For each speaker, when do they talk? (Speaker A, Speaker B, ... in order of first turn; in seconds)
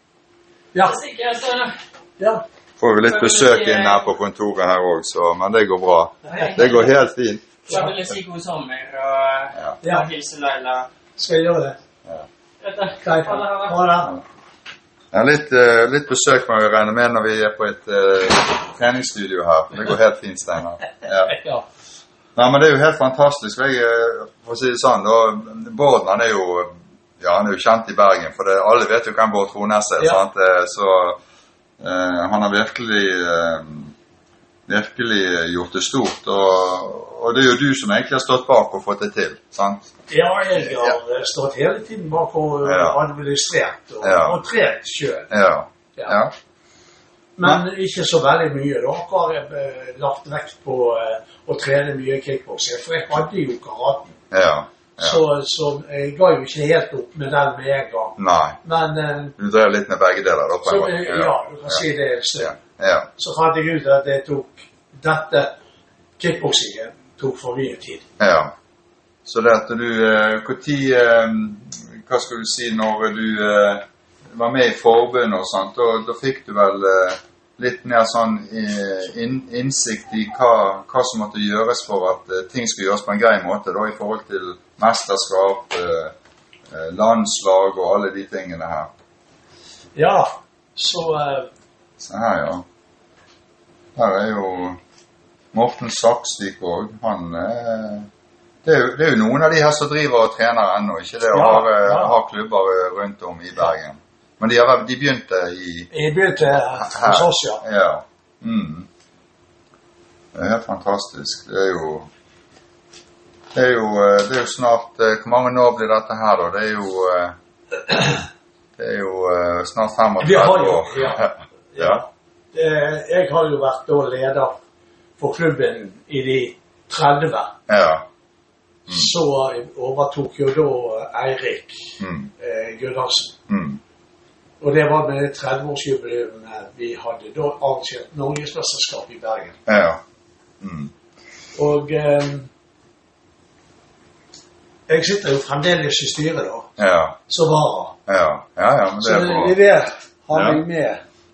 Speaker A: 0.7-1.0, 2.2-2.4, 9.8-10.1, 11.2-11.8, 13.0-14.2, 21.3-21.6, 40.1-45.3, 47.4-54.1, 55.0-59.3, 60.6-62.6, 63.2-65.5, 66.2-68.0, 89.9-91.5, 101.3-102.2, 105.9-107.6, 120.2-121.2, 121.7-124.6, 125.2-127.5, 128.9-133.3, 134.6-139.6, 141.5-142.5, 144.9-146.7, 147.3-148.0, 149.0-151.0
Speaker B: 0.8-1.8, 3.1-4.1, 6.3-6.8, 7.7-10.9, 12.6-13.8
Speaker C: 2.8-7.6, 15.1-21.4, 22.4-31.2, 31.8-33.9, 34.7-39.9, 40.6-41.0, 42.6-43.0, 44.0-44.4, 45.3-46.3, 54.3-55.2, 58.2-58.6, 59.4-61.8, 62.4-63.1, 68.2-68.5, 69.2-86.1, 86.7-88.9, 92.0-92.6, 94.0-94.8, 95.5-98.1, 98.6-105.9, 106.7-108.9, 110.3-112.1, 113.5-117.3, 118.8-122.0, 127.7-128.1, 132.0-132.3, 133.5-133.8, 139.7-140.0, 140.6-140.9, 146.8-147.2, 148.1-149.6, 150.3-150.6